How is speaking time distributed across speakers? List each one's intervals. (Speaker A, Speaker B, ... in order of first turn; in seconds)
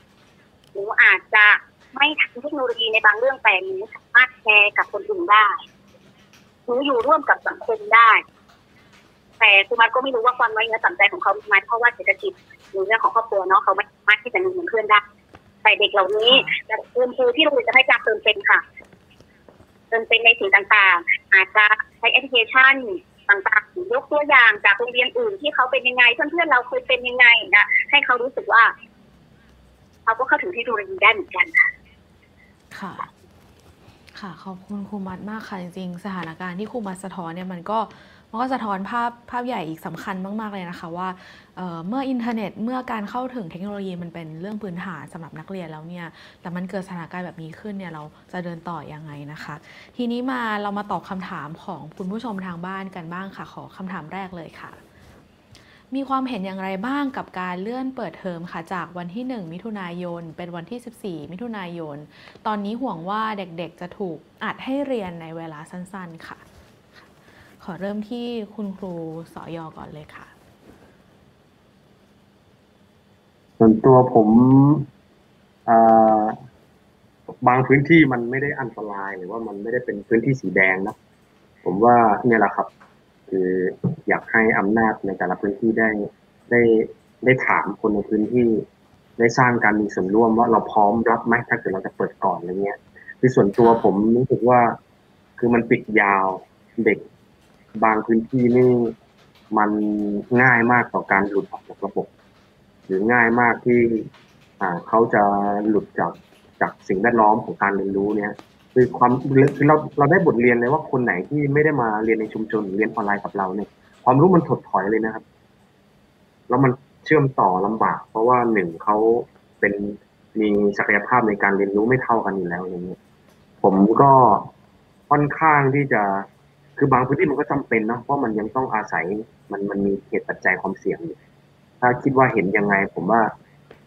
Speaker A: 0.7-5.6, 6.7-8.2, 9.4-15.0, 15.6-18.6, 19.9-28.7, 30.1-31.7
Speaker B: 16.2-16.6, 32.7-33.1, 34.1-54.8, 55.9-66.4, 67.6-70.3, 93.6-93.9
Speaker C: 73.6-74.9, 75.7-76.4, 77.4-81.0, 81.6-82.7, 83.3-88.6, 89.2-94.8, 95.4-97.0, 97.8-98.9, 99.5-102.1, 102.9-115.2, 116.5-123.0, 123.6-124.5, 125.1-131.2, 131.8-133.3